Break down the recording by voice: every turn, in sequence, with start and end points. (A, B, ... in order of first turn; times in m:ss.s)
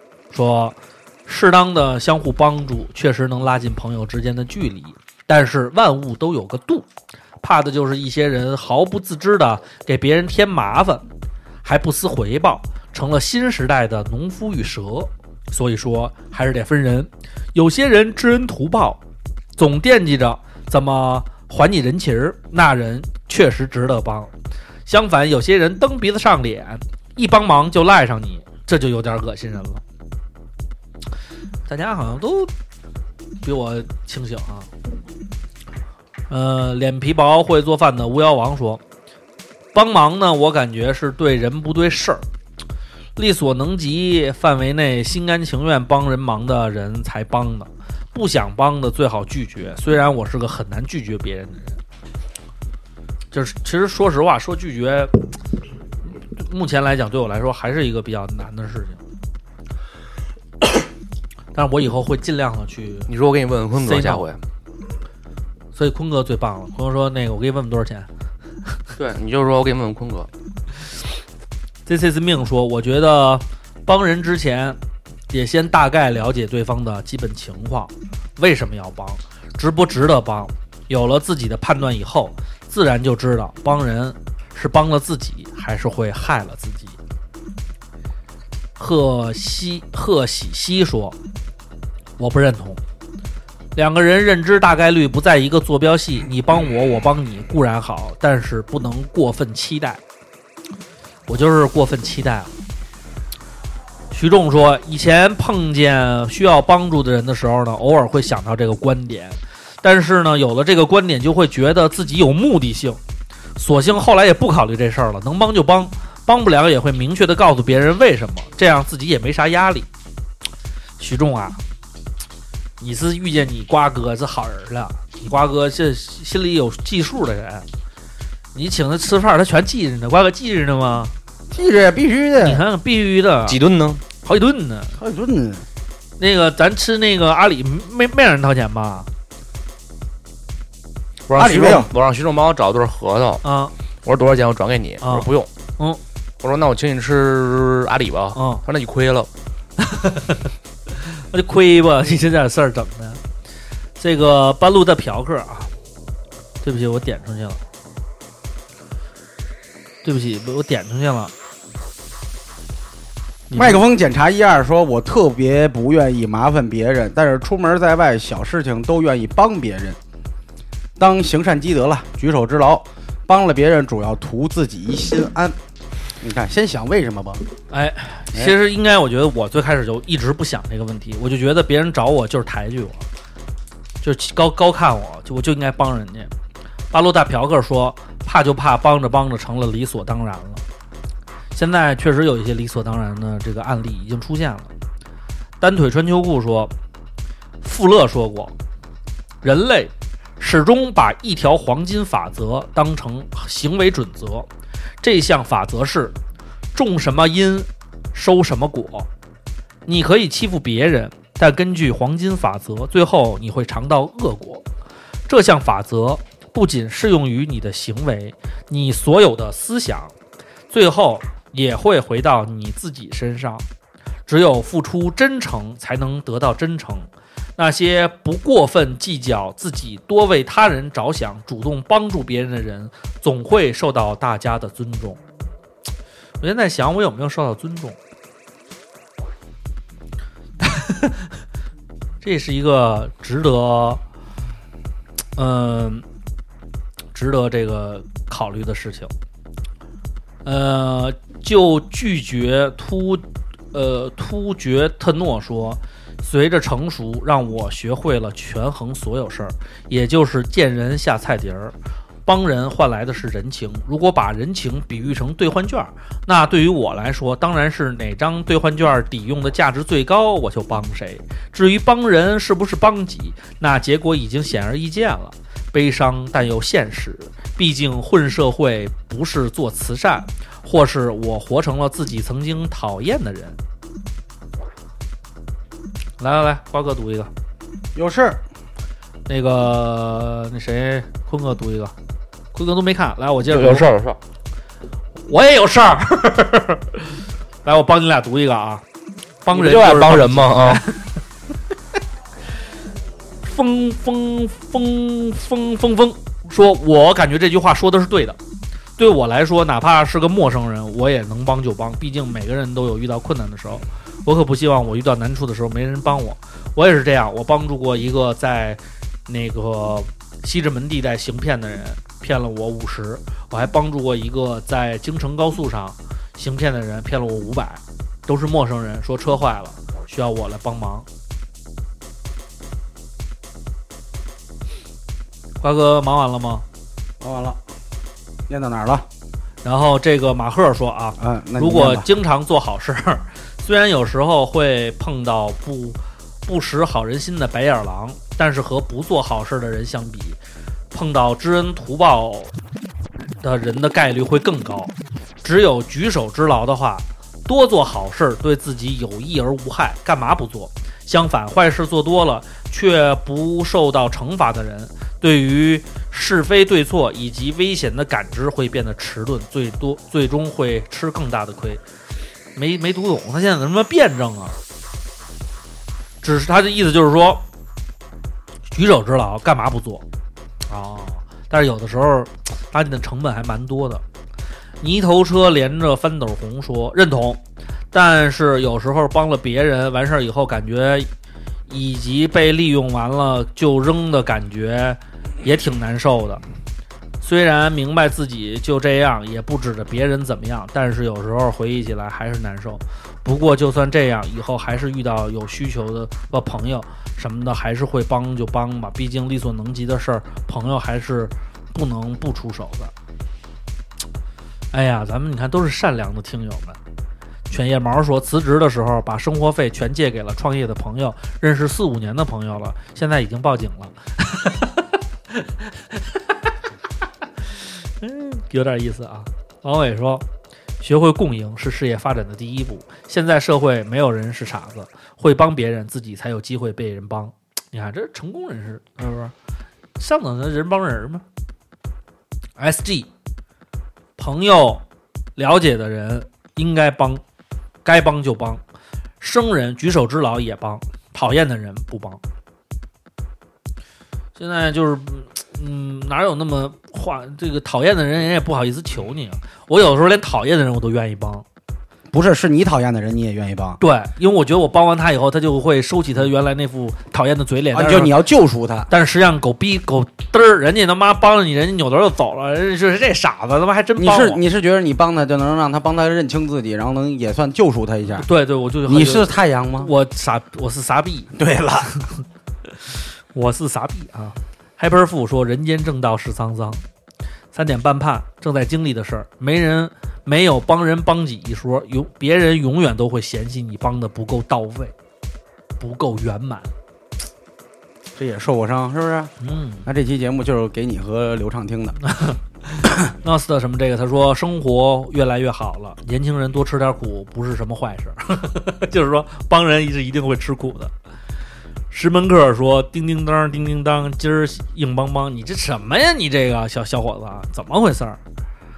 0:00.3-0:06.9 A
0:07.4-0:11.0 A
0:11.6-0:19.0 A
0:19.6-0:24.3 A
0:24.9-0:29.8 A
0:31.7-0:32.5 A
0:33.4-0:34.7 A
0:36.3-0:38.8 A
0:39.7-0:42.2 A
0:43.2-0:51.8 A
0:53.3-0:55.3 A
0:56.3-0:59.0 A
1:01.5-1:03.1 A
1:03.1-1:04.4 B
1:03.8-1:04.2 A
1:05.7-1:08.1 A
1:09.0-1:10.3 B
1:11.8-1:14.8 A
1:15.3-1:27.0 A
1:28.8-1:31.2 A
1:32.2-1:32.8 A
1:33.7-1:40.0 A
1:41.3-1:42.5 A
1:44.1-1:53.0 A
1:53.6-1:59.9 A
2:01.0-2:01.6 A
2:02.8-2:07.6 A
2:08.5-2:11.1 A
2:11.5-2:12.6 C
2:12.4-2:13.6 A
2:13.5-2:14.0 B
2:14.2-2:15.0 A
2:15.0-2:15.7 C
2:16.2-2:19.1 A
2:21.3-2:23.4 B
2:21.4-2:21.9 C
2:23.4-2:23.7 A
2:24.0-2:25.5 B
2:25.0-2:25.3 A
2:26.4-2:29.3 B
2:28.3-2:28.6 A
2:29.8-2:30.4 A
2:31.2-2:33.2 A
2:34.0-2:35.7 A
2:36.6-2:37.6 A
2:40.0-2:41.3 A
2:43.5-2:43.8 A
2:43.5-2:50.0 C
2:51.0-2:55.6 C
2:56.2-2:57.5 C
2:57.7-3:03.0 A
3:04.0-3:06.3 A
3:06.9-3:10.6 A
3:11.5-3:14.7 A
3:15.6-3:16.7 A
3:17.6-3:18.5 A
3:19.4-3:24.5 A
3:25.0-3:26.2 A
3:26.7-3:29.1 A
3:29.9-3:34.6 A
3:35.3-3:40.1 A
3:40.7-3:43.6 A
3:44.3-3:55.2 A
3:56.4-3:58.0 A
4:00.6-4:01.2 A
4:02.2-4:04.0 A
4:05.4-4:06.0 A
4:07.1-4:09.1 A
4:10.4-4:21.7 A
4:22.2-4:43.6 A
4:46.2-4:47.3 A
4:47.9-4:48.4 C
4:49.3-4:51.9 A
4:52.5-4:53.8 A
4:53.5-4:54.2 B
4:55.3-4:58.8 A
4:59.4-5:01.1 A
4:59.5-5:00.8 B
5:03.4-5:08.4 A
5:09.0-5:31.0 A
5:35.6-5:36.6 A
5:37.2-5:37.6 C
5:38.5-5:39.0 C
5:39.6-5:50.4 A
5:41.2-5:42.0 C
5:50.9-5:52.5 A
5:53.4-5:54.9 A
5:55.4-6:11.8 A
6:12.6-6:14.6 A
6:16.2-6:17.4 A
6:18.7-6:20.0 A
6:20.7-6:24.0 A
6:24.8-6:27.4 A
6:27.9-6:31.1 A
6:31.7-6:36.4 A
6:37.2-6:52.9 A
6:54.7-6:56.8 A
6:57.5-7:06.0 A
7:07.6-7:10.2 A
7:10.8-7:19.3 A
7:20.0-7:21.2 A
7:22.6-7:23.1 A
7:24.2-7:24.8 A
7:25.4-7:27.2 A
7:27.8-7:28.6 A
7:29.2-7:32.2 A
7:34.4-7:41.4 A
7:42.1-7:43.8 C
7:43.8-7:48.1 A
7:47.7-7:48.9 C
7:48.9-7:54.4 A
7:54.0-7:58.2 C
7:58.2-8:01.3 A
7:58.9-7:59.9 C
8:01.3-8:02.0 C
8:03.3-8:06.8 A
8:07.5-8:14.9 A
8:15.8-8:16.7 A
8:18.2-8:19.3 C
8:19.4-8:19.8 A
8:19.8-8:22.0 C
8:22.1-8:30.9 A
8:31.9-8:38.2 A